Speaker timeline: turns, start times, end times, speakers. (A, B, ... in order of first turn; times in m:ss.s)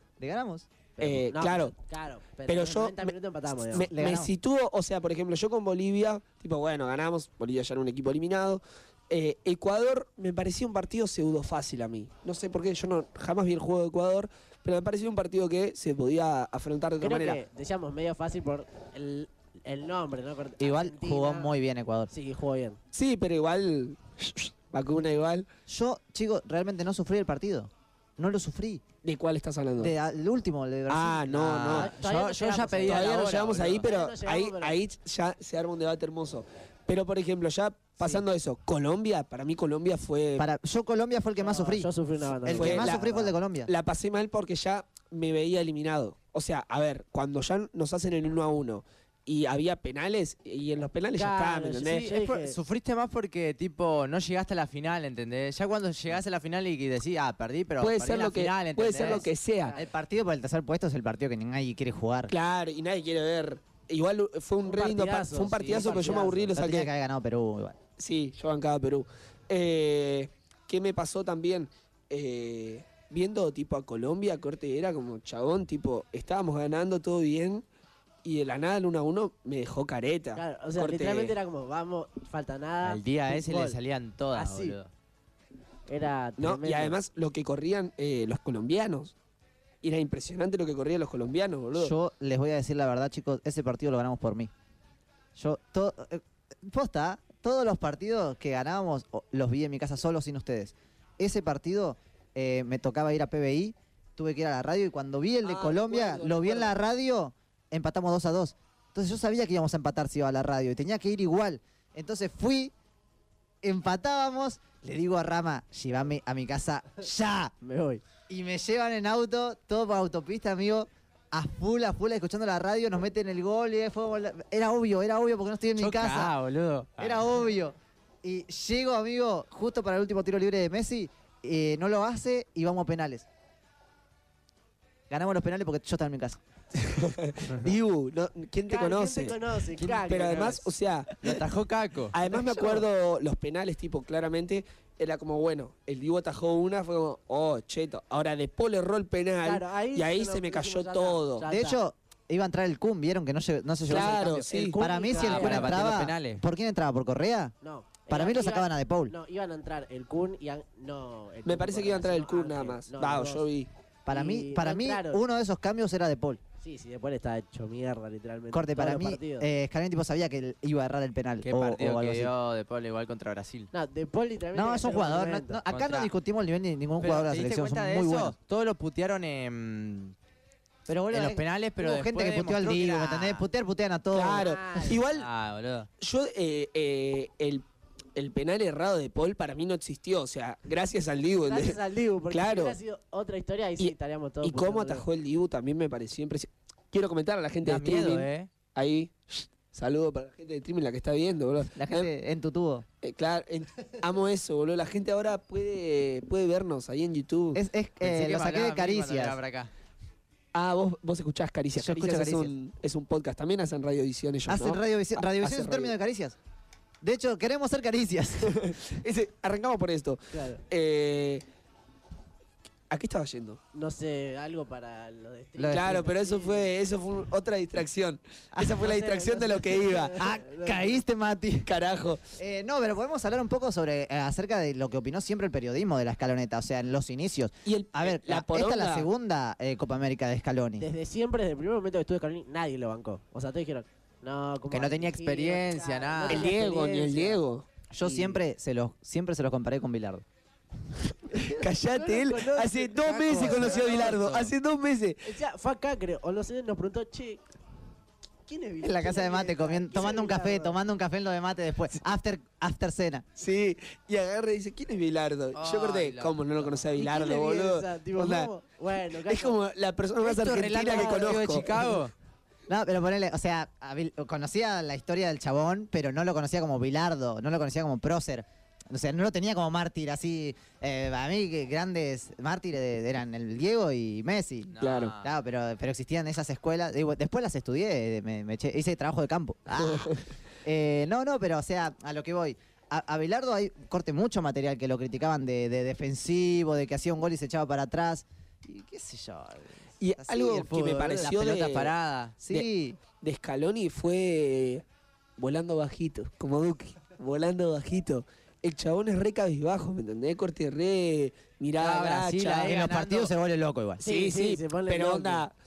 0:00.2-0:00.7 A
0:01.0-0:03.9 B
0:01.0-0:01.7 C
0:02.5-0:03.1 C
0:03.7-0:17.4 C
0:03.8-0:04.3 A
0:17.0-0:21.5 B
0:20.6-0:22.1 A
0:22.1-0:22.8 B
0:22.9-0:25.4 C
0:25.7-0:28.8 A
0:29.0-0:29.9 C
0:29.8-0:31.9 A
0:30.9-0:31.9 C
0:31.7-0:34.8 B
0:31.9-0:33.9 D
0:32.8-0:40.4 C
0:40.4-0:41.9 A
0:41.4-0:43.3 B
0:42.4-0:43.7 A
0:42.5-0:43.0 C
0:43.7-0:52.1 C
0:51.2-0:52.6 B
0:51.9-0:59.2 D
0:57.8-0:59.7 C
0:59.7-1:02.3 A
1:02.3-1:06.9 C
1:04.6-1:06.5 B
1:06.5-1:07.8 A
1:08.0-1:17.6 C
1:18.2-1:21.4 C
1:20.3-1:23.8 B
1:22.8-1:24.9 D
1:24.3-1:24.8 B
1:25.9-1:27.0 B
1:26.4-1:29.1 C
1:29.8-1:31.9 C
1:31.7-1:34.5 A
1:35.4-1:52.7 A
1:45.4-1:46.7 C
1:53.6-1:57.5 A
1:57.6-1:58.0 B
1:58.3-2:06.3 A
2:05.8-2:07.3 D
2:07.0-2:13.2 A
2:15.1-2:16.4 A
2:16.7-2:19.4 C
2:18.7-2:20.7 B
2:20.0-2:21.4 C
2:21.2-2:22.1 D
2:22.1-2:31.4 C
2:22.3-2:22.8 B
2:29.4-2:31.8 B
2:31.5-2:37.5 A
2:33.9-2:34.8 C
2:33.9-2:35.9 B
2:35.1-2:36.4 D
2:37.6-2:43.4 B
2:38.1-2:39.1 A
2:41.4-2:43.7 C
2:44.0-2:46.4 A
2:44.1-2:45.2 B
2:46.6-2:49.5 B
2:48.5-2:52.3 A
2:51.4-2:53.7 D
2:53.7-2:55.6 B
2:54.5-2:58.3 A
2:55.7-2:56.1 D
2:57.0-3:00.1 D
3:00.9-3:04.5 A
3:01.1-3:03.4 D
3:04.1-3:05.3 C
3:04.4-3:05.0 B
3:05.1-3:05.9 D
3:06.0-3:07.6 C
3:08.2-3:11.8 C
3:11.4-3:15.0 B
3:12.3-3:12.8 C
3:13.8-3:22.1 C
3:17.6-3:18.5 D
3:21.8-3:22.8 A
3:23.0-3:27.6 C
3:27.5-3:29.4 A
3:28.0-3:29.7 D
3:30.5-3:35.9 C
3:31.7-3:32.5 A
3:34.5-3:36.4 A
3:37.0-3:38.8 A
3:38.4-3:41.4 C
3:40.3-3:40.6 B
3:42.9-3:43.6 C
3:43.7-3:46.7 B
3:45.6-3:46.0 A
3:45.7-3:50.2 C
3:48.5-3:48.8 A
3:48.8-3:51.0 B
3:50.2-3:51.7 A
3:51.6-3:52.2 C
3:52.4-4:00.9 A
3:57.6-3:59.1 C
4:00.8-4:07.4 B
4:04.7-4:06.5 D
4:06.3-4:07.6 C
4:07.9-4:10.2 A
4:08.0-4:08.4 B
4:11.3-4:15.3 C
4:11.4-4:14.2 B
4:14.0-4:14.4 D
4:15.2-4:17.4 B
4:18.5-4:20.8 B
4:18.8-4:23.2 A
4:23.4-4:28.5 C
4:25.5-4:26.8 D
4:27.0-4:29.6 B
4:29.2-4:31.7 C
4:30.2-4:32.1 D
4:30.8-4:32.0 B
4:32.7-4:50.1 A
4:44.7-4:45.3 D
4:44.8-4:45.1 C
4:49.8-4:50.2 C
4:50.6-5:01.6 A
5:00.0-5:01.9 C
5:00.7-5:02.4 D
5:02.4-5:03.0 A
5:03.2-5:04.8 C
5:05.4-5:12.8 C
5:11.8-5:13.3 D
5:12.6-5:14.0 A
5:14.0-5:15.4 B
5:14.0-5:15.5 C